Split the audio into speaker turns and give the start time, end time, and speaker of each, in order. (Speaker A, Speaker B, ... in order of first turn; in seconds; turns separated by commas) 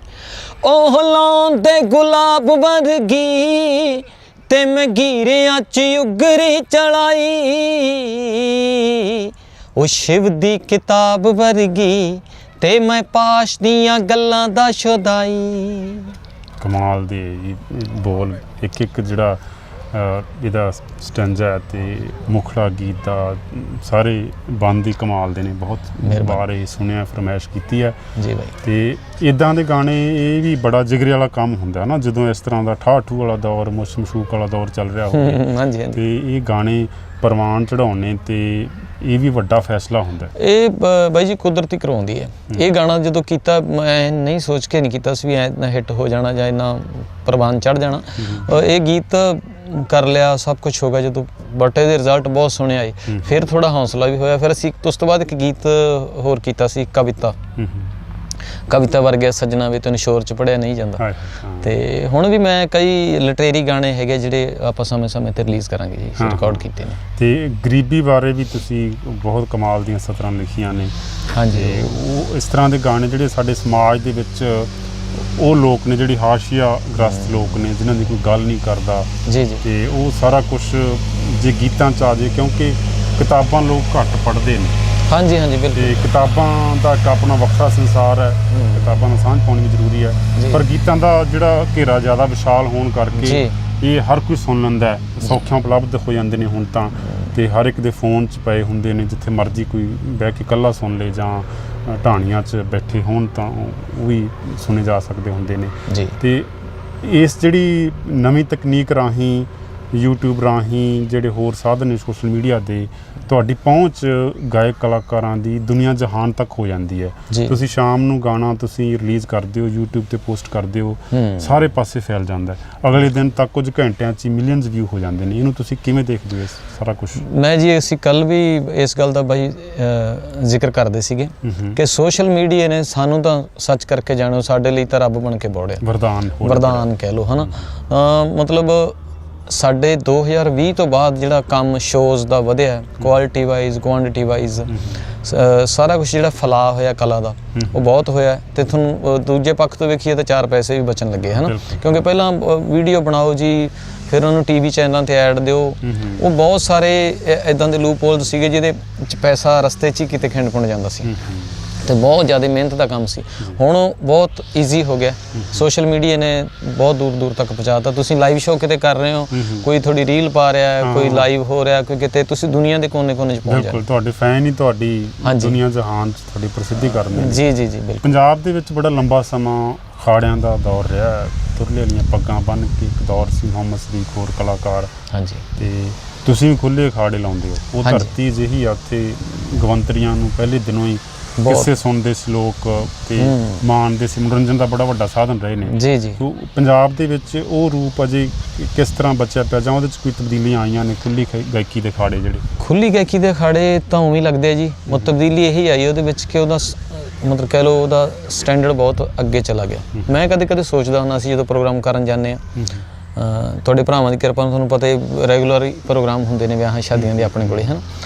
Speaker A: 0.6-16.1, Speaker B: 16.6-19.4, Speaker B: 19.9-28.0, Speaker A: 26.0-26.4, Speaker A: 28.2-28.6, Speaker B: 28.6-40.3, Speaker A: 35.1-36.0, Speaker A: 40.4-57.4, Speaker B: 48.2-48.5, Speaker B: 53.1-53.4, Speaker B: 57.6-57.9, Speaker A: 58.7-61.0, Speaker B: 61.0-61.7, Speaker A: 61.6-67.0, Speaker B: 66.2-71.0, Speaker A: 71.3-71.9, Speaker B: 71.5-79.1, Speaker A: 79.3-79.6, Speaker B: 79.6-84.8, Speaker A: 85.1-86.1, Speaker B: 85.7-127.2, Speaker A: 88.5-89.0, Speaker A: 90.4-90.6, Speaker A: 93.2-93.5, Speaker A: 105.9-106.2, Speaker A: 117.3-117.6, Speaker A: 121.1-121.6, Speaker A: 127.2-135.8, Speaker B: 131.4-131.8, Speaker B: 135.8-137.7, Speaker A: 136.4-161.1, Speaker B: 144.7-145.0, Speaker B: 147.5-147.8, Speaker B: 151.3-151.8, Speaker B: 155.8-156.3, Speaker B: 161.0-161.7, Speaker A: 161.8-173.8, Speaker B: 165.3-165.6, Speaker B: 169.3-169.7, Speaker B: 170.8-171.3, Speaker B: 173.4-177.5, Speaker A: 175.2-175.6, Speaker A: 176.8-178.1, Speaker B: 178.0-184.9, Speaker A: 185.1-185.5, Speaker B: 185.6-202.5, Speaker A: 187.8-188.1, Speaker A: 191.4-191.7, Speaker A: 193.2-193.6, Speaker A: 195.7-196.2, Speaker A: 202.6-212.4, Speaker B: 204.9-205.1, Speaker B: 212.6-212.8, Speaker A: 213.2-217.8, Speaker B: 216.9-217.7